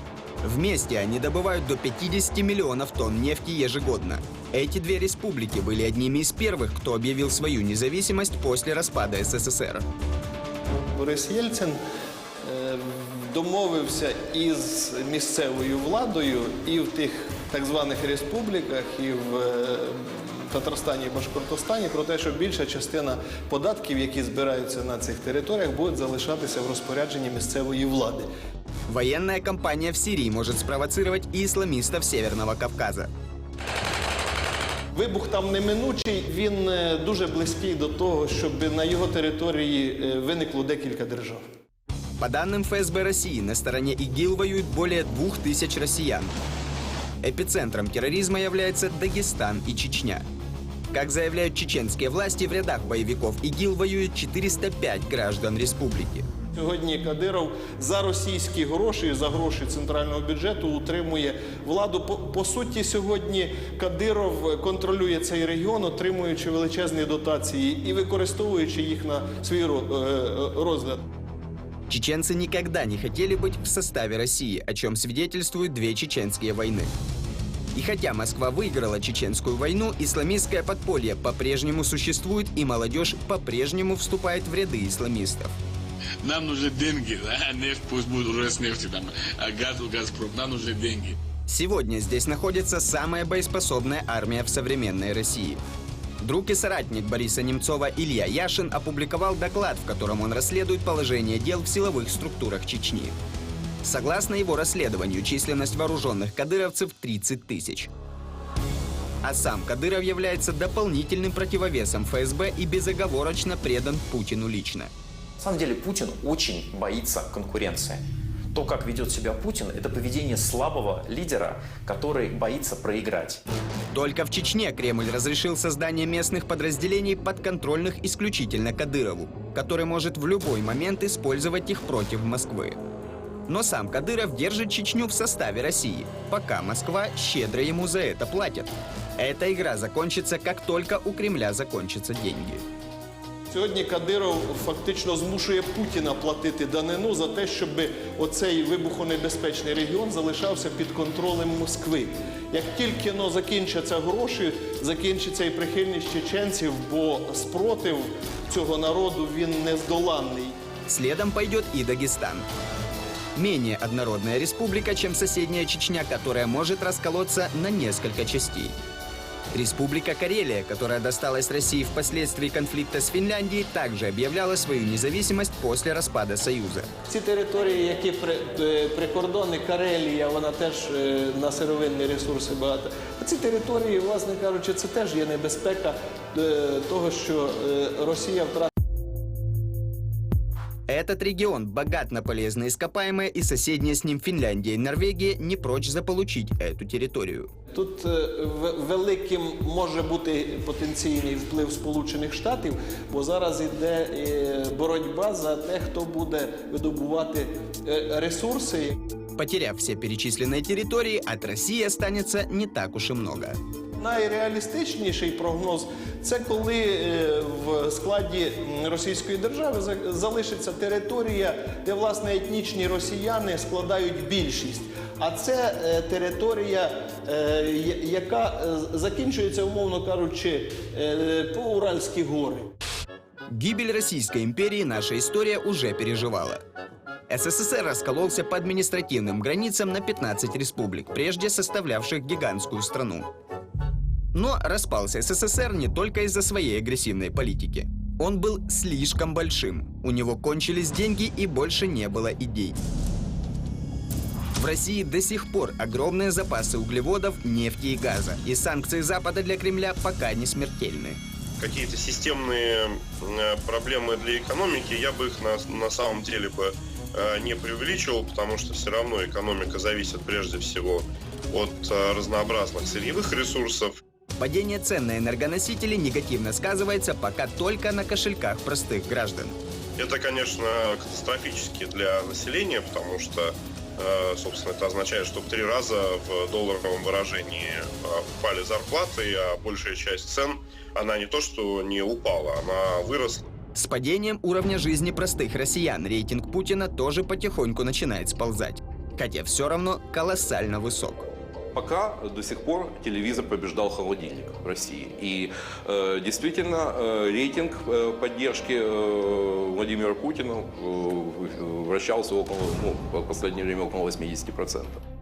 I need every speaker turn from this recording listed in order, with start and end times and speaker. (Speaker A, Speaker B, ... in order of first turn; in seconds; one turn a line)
Speaker A: 0.4-9.8
Speaker B: 10.9-11.8
Speaker B: 12.4-28.3
Speaker A: 28.9-33.1
Speaker B: 34.9-41.4
Speaker A: 42.2-46.4
Speaker A: 47.2-50.2
Speaker A: 50.9-56.3
Speaker B: 56.5-71.0
Speaker A: 71.9-76.9
Speaker A: 77.7-85.6
Speaker C: 86.2-91.2
Speaker A: 91.5-95.6
Speaker A: 96.2-103.1
Speaker A: 103.8-107.9
Speaker A: 109.2-114.9
Speaker D: 115.4-118.0
Speaker D: 118.5-123.4
Speaker A: 123.9-132.8
Speaker A: 133.5-142.6
Speaker B: 143.5-160.6
Speaker A: 160.9-162.4
Speaker A: 163.3-168.8
Speaker A: 169.5-176.9
Speaker B: 177.1-188.7
Speaker A: 190.9-197.5
Speaker B: 197.7-209.0
Speaker A: 209.4-213.6
Speaker B: 214.0-232.7
Speaker A: 233.5-236.6
Speaker A: 237.3-243.3
Speaker A: 244.3-252.8
Speaker A: 254.6-261.2
Speaker E: 261.6-274.0
Speaker A: 274.4-279.6
Speaker E: 280.0-293.5
Speaker A: 293.7-301.3
Speaker F: 301.7-315.0